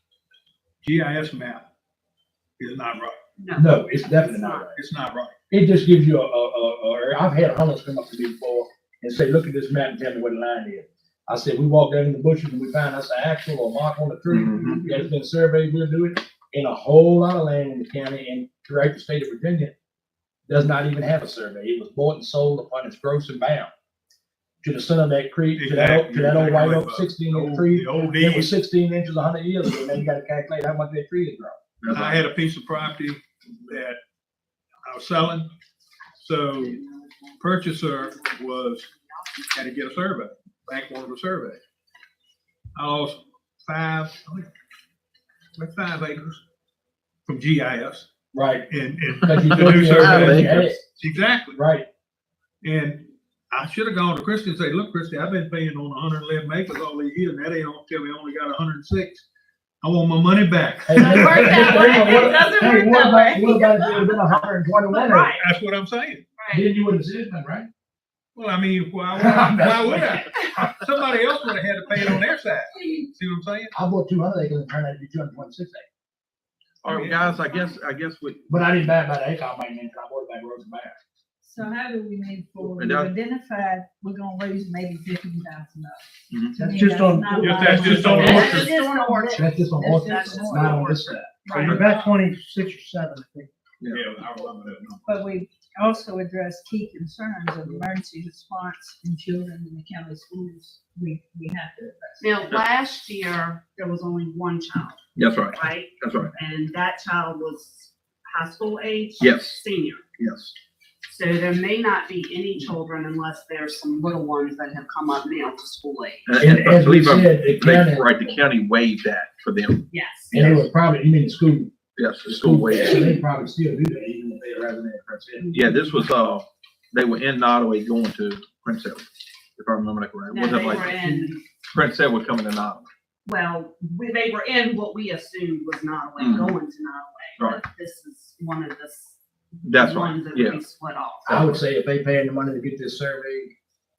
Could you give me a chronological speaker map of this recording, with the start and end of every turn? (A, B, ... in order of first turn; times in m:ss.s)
0:00.8-0:01.7 A
0:02.6-0:03.2 A
0:03.4-0:04.7 B
0:03.6-0:04.8 C
0:04.8-0:05.3 A
0:05.5-0:19.7 C
0:14.3-0:14.8 D
0:20.5-0:23.7 C
0:24.6-0:31.6 C
0:25.6-0:28.5 A
0:31.8-0:32.2 D
0:31.9-0:34.0 A
0:34.8-0:35.5 A
0:36.2-0:36.8 A
0:36.6-0:37.3 B
0:37.4-0:38.9 A
0:37.9-0:39.2 B
0:39.5-0:41.6 A
0:42.8-0:44.5 A
0:45.6-0:46.4 A
0:47.3-0:48.1 A
0:48.3-0:48.7 C
0:48.7-0:51.6 A
0:49.2-0:50.8 C
0:50.0-0:50.8 D
0:51.5-0:51.9 C
0:52.6-0:59.2 A
0:59.8-1:01.6 A
1:00.9-1:05.3 C
1:01.0-1:04.2 B
1:04.9-1:05.5 B
1:05.4-1:06.2 A
1:06.4-1:06.7 B
1:06.5-1:07.7 C
1:08.4-1:13.7 A
1:09.1-1:10.3 C
1:12.8-1:13.1 E
1:13.7-1:15.9 C
1:16.8-1:18.5 D
1:16.9-1:17.4 A
1:18.5-1:21.0 C
1:21.4-1:30.8 E
1:22.8-1:23.2 D
1:26.3-1:26.6 D
1:26.6-1:28.4 F
1:27.4-1:28.7 A
1:27.7-1:32.1 B
1:28.2-1:28.5 C
1:29.3-1:31.3 C
1:31.5-1:33.5 F
1:33.8-1:34.1 D
1:33.9-1:35.2 A
1:35.1-1:42.3 E
1:42.2-1:50.0 B
1:45.2-1:46.3 D
1:49.2-1:49.6 D
1:50.2-1:50.5 D
1:51.1-1:56.3 B
1:56.3-2:00.5 D
1:56.4-1:58.2 C
1:59.9-2:00.7 B
2:00.3-2:05.6 C
2:02.0-2:03.2 D
2:05.5-2:12.9 D
2:10.3-2:11.4 B
2:13.2-2:21.4 B
2:16.2-2:16.6 D
2:19.6-2:20.6 D
2:21.3-2:23.5 C